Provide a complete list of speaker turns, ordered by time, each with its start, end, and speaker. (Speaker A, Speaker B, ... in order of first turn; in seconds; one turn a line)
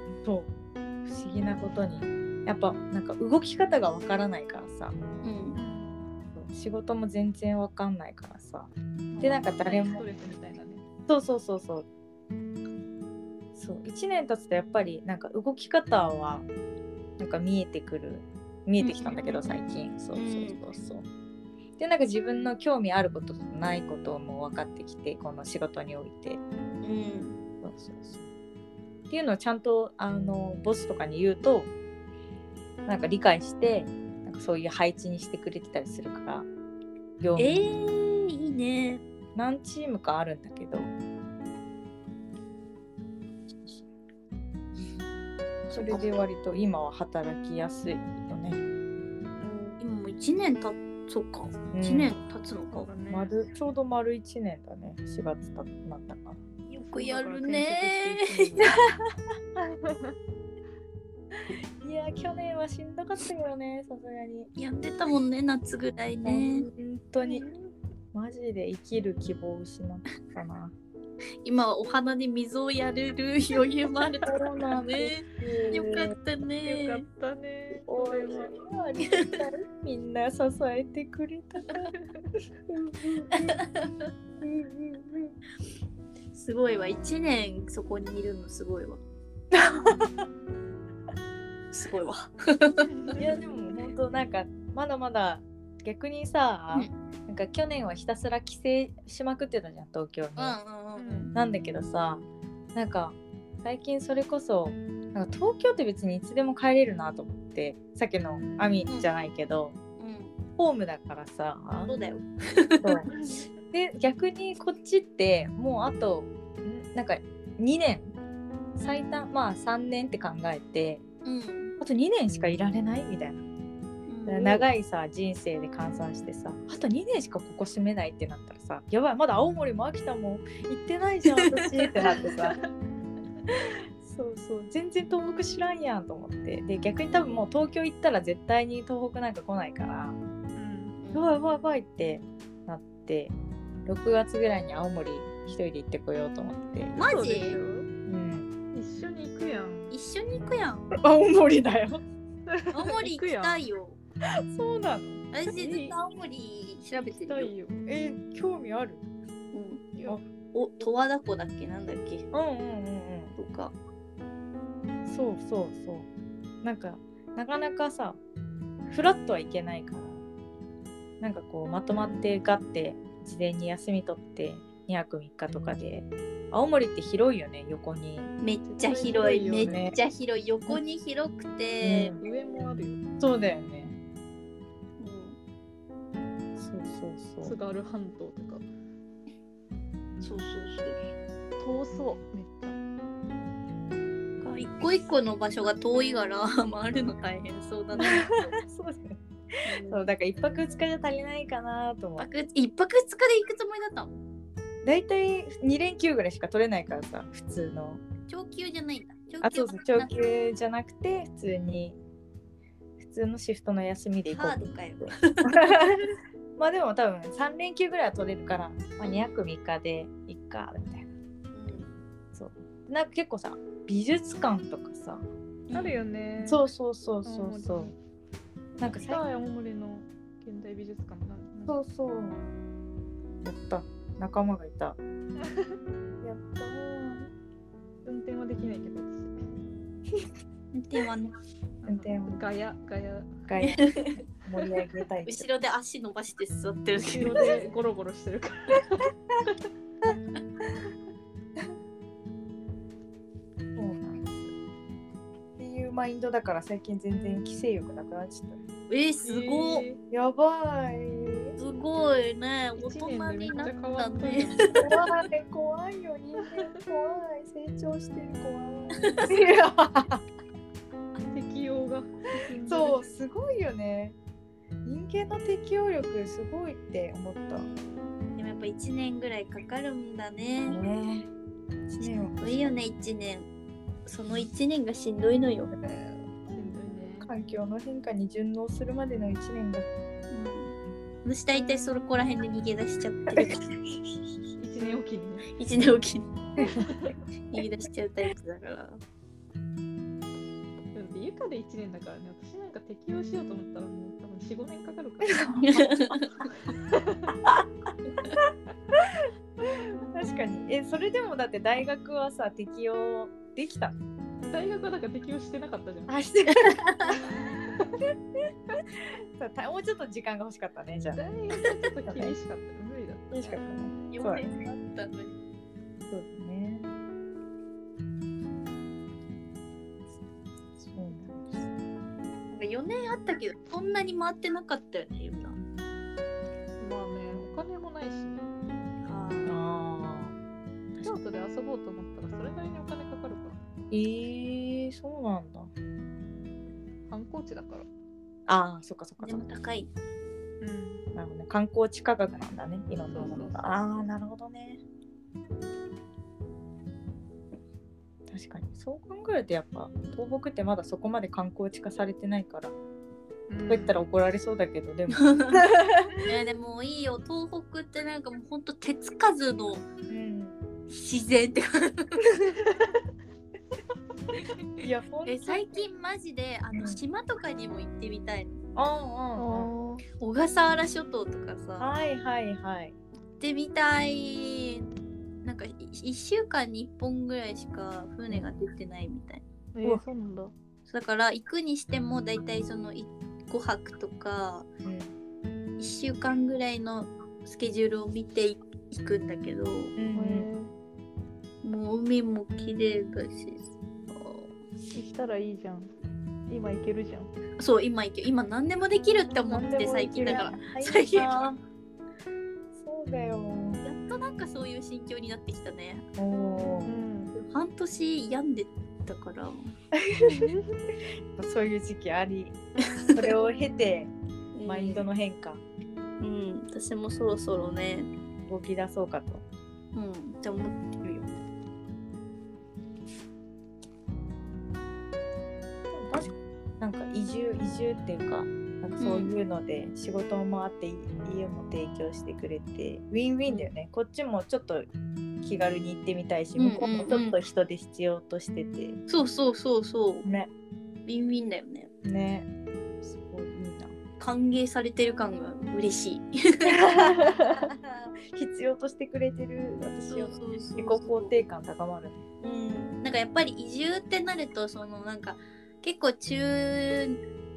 Speaker A: 0.2-0.5
Speaker A: 1.0-5.0
Speaker B: 5.2-5.6
Speaker C: 5.5-6.0
Speaker A: 6.3-10.0
Speaker C: 9.1-10.8
Speaker A: 11.1-11.8
Speaker A: 13.5-16.5
Speaker A: 17.2-21.1
Speaker B: 18.8-19.4
Speaker B: 20.1-20.6
Speaker A: 21.8-26.4
Speaker B: 26.8-27.4
Speaker A: 27.6-28.2
Speaker A: 29.1-31.7
Speaker A: 32.9-36.5
Speaker A: 37.2-37.5
Speaker B: 37.4-39.0
Speaker A: 39.3-40.9
Speaker A: 43.6-43.9
Speaker B: 45.7-46.2
Speaker A: 45.7-48.6
Speaker C: 49.4-49.8
Speaker B: 49.8-52.9
Speaker A: 51.7-52.1
Speaker C: 52.6-53.3
Speaker A: 53.1-56.4
Speaker B: 56.7-58.7
Speaker C: 56.8-58.8
Speaker C: 59.6-60.1
Speaker A: 61.8-64.5
Speaker B: 64.5-66.7
Speaker A: 66.2-67.5
Speaker C: 67.2-67.7
Speaker A: 68.1-70.7
Speaker B: 71.4-77.0
Speaker A: 74.2-76.1
Speaker C: 76.6-78.6
Speaker A: 77.8-81.9
Speaker A: 83.0-83.5
Speaker B: 83.4-83.9
Speaker A: 84.4-85.3
Speaker B: 86.3-89.0
Speaker A: 89.5-90.2
Speaker B: 91.7-92.8
Speaker C: 92.8-93.7
Speaker A: 93.2-100.6
Speaker B: 100.3-101.3
Speaker C: 101.0-101.3
Speaker A: 101.3-109.8
Speaker C: 108.4-108.9
Speaker B: 110.0-110.3
Speaker A: 110.6-111.9
Speaker B: 111.9-112.9
Speaker A: 112.8-113.1
Speaker C: 113.1-113.5
Speaker A: 113.7-118.1
Speaker A: 118.8-121.0
Speaker B: 121.2-121.7
Speaker A: 121.8-123.4
Speaker B: 124.1-124.7
Speaker A: 124.2-132.6
Speaker A: 134.0-140.2
Speaker C: 140.6-140.9
Speaker B: 141.0-141.3
Speaker A: 141.1-143.3
Speaker A: 143.8-146.9
Speaker B: 146.9-147.6
Speaker C: 146.9-147.9
Speaker A: 148.1-148.5
Speaker C: 148.7-149.9
Speaker B: 149.9-150.9
Speaker A: 151.0-152.0
Speaker C: 152.5-153.6
Speaker B: 152.7-154.0
Speaker A: 154.5-155.2
Speaker B: 155.3-157.5
Speaker C: 155.5-156.0
Speaker C: 156.9-157.8
Speaker A: 157.8-159.0
Speaker B: 159.5-160.0
Speaker B: 160.5-162.2
Speaker A: 162.3-163.3
Speaker B: 163.3-163.7
Speaker A: 165.1-166.1
Speaker A: 166.6-168.2
Speaker A: 168.9-170.2
Speaker A: 171.2-178.3
Speaker B: 178.4-182.2
Speaker C: 178.7-179.9
Speaker A: 179.6-180.0
Speaker A: 181.8-182.2
Speaker C: 182.2-183.0
Speaker A: 183.2-183.9
Speaker B: 185.0-185.4
Speaker A: 186.6-187.6
Speaker C: 187.4-188.6
Speaker B: 190.2-191.0
Speaker C: 191.6-192.8
Speaker B: 194.4-198.2
Speaker A: 198.0-202.3
Speaker B: 199.6-200.1
Speaker B: 202.2-204.2
Speaker A: 204.8-208.0
Speaker B: 208.3-210.1
Speaker A: 209.4-212.0
Speaker A: 213.0-221.1
Speaker B: 214.3-215.6
Speaker B: 219.0-219.4
Speaker B: 221.5-222.0
Speaker A: 222.3-225.2
Speaker B: 225.7-226.0
Speaker C: 225.7-226.6
Speaker A: 226.4-227.9
Speaker C: 227.2-227.9
Speaker A: 228.8-229.2
Speaker C: 229.0-231.8
Speaker A: 231.7-232.4
Speaker A: 233.4-235.0
Speaker C: 235.4-235.8
Speaker A: 236.2-237.3
Speaker C: 238.0-239.3
Speaker B: 240.7-241.3
Speaker C: 241.8-243.4
Speaker A: 241.8-242.4
Speaker A: 243.5-243.8
Speaker B: 243.6-244.1
Speaker A: 244.4-245.5
Speaker B: 245.2-247.5
Speaker C: 247.0-249.1
Speaker A: 253.8-254.5
Speaker A: 255.6-258.6
Speaker B: 258.9-259.9
Speaker C: 259.2-260.0
Speaker A: 260.1-261.6
Speaker B: 261.6-265.1
Speaker C: 262.8-264.8
Speaker A: 264.7-270.2
Speaker B: 269.0-269.3
Speaker C: 271.3-273.1
Speaker A: 272.7-274.1
Speaker A: 274.8-277.7
Speaker B: 277.5-280.8
Speaker A: 280.7-281.3
Speaker A: 281.9-282.8
Speaker B: 282.0-283.5
Speaker B: 284.1-285.8
Speaker C: 286.5-287.3
Speaker A: 287.2-289.9
Speaker B: 290.3-293.7
Speaker A: 293.3-294.2
Speaker C: 294.6-295.5
Speaker B: 295.5-296.2
Speaker A: 296.6-296.9
Speaker C: 296.6-297.1
Speaker B: 297.5-299.0
Speaker C: 300.9-305.9
Speaker A: 305.3-306.2
Speaker B: 305.6-306.2
Speaker C: 306.5-307.2
Speaker A: 310.1-313.9
Speaker C: 314.4-316.1
Speaker A: 316.1-316.8
Speaker B: 316.6-317.2
Speaker C: 317.1-318.0
Speaker A: 319.4-321.2
Speaker C: 321.1-324.2
Speaker A: 322.1-322.4
Speaker A: 323.3-324.5
Speaker B: 324.1-325.4
Speaker A: 326.1-326.9
Speaker A: 330.8-331.7
Speaker B: 332.5-335.6
Speaker C: 336.8-338.4
Speaker B: 339.0-339.6
Speaker A: 339.4-340.3
Speaker A: 340.9-341.2
Speaker C: 341.0-343.6
Speaker A: 343.9-345.7
Speaker C: 347.1-347.9
Speaker A: 348.5-349.5
Speaker B: 349.2-349.9
Speaker C: 350.6-351.1
Speaker A: 351.1-354.8
Speaker C: 353.1-353.7
Speaker A: 358.3-362.7
Speaker C: 363.5-364.0
Speaker A: 363.7-366.2
Speaker B: 365.1-365.6
Speaker B: 366.2-369.9
Speaker A: 370.1-370.5
Speaker B: 370.9-372.3
Speaker A: 374.8-375.8
Speaker B: 375.2-378.6
Speaker A: 376.7-377.0
Speaker A: 378.8-379.7
Speaker C: 379.4-380.0
Speaker B: 380.2-381.9
Speaker A: 381.8-382.9
Speaker B: 383.4-384.8
Speaker B: 385.4-389.4
Speaker C: 389.7-390.5
Speaker B: 390.9-394.7
Speaker A: 394.8-395.1
Speaker B: 395.8-400.0
Speaker A: 400.0-400.5
Speaker C: 400.1-400.7
Speaker B: 401.6-404.5
Speaker C: 404.9-405.9
Speaker C: 406.5-407.3
Speaker B: 407.6-411.5
Speaker A: 409.4-411.6
Speaker A: 412.7-413.8
Speaker B: 413.8-416.0
Speaker A: 416.2-416.9
Speaker C: 416.8-417.3
Speaker B: 417.3-419.5
Speaker A: 420.1-420.5
Speaker C: 420.3-420.7
Speaker A: 421.4-422.6
Speaker A: 423.1-424.1
Speaker B: 424.5-425.0
Speaker A: 424.6-425.6
Speaker B: 426.2-428.1
Speaker A: 428.5-429.4
Speaker B: 429.9-431.3
Speaker A: 435.9-444.9
Speaker B: 439.0-439.3
Speaker B: 443.4-443.7
Speaker A: 445.4-449.0
Speaker B: 446.6-447.4
Speaker B: 449.1-450.2
Speaker A: 450.2-450.5
Speaker B: 451.1-451.9
Speaker A: 452.0-452.5
Speaker A: 453.0-453.9
Speaker B: 454.2-456.7
Speaker A: 456.8-462.2
Speaker C: 457.0-457.5
Speaker B: 460.1-461.4
Speaker B: 462.4-467.2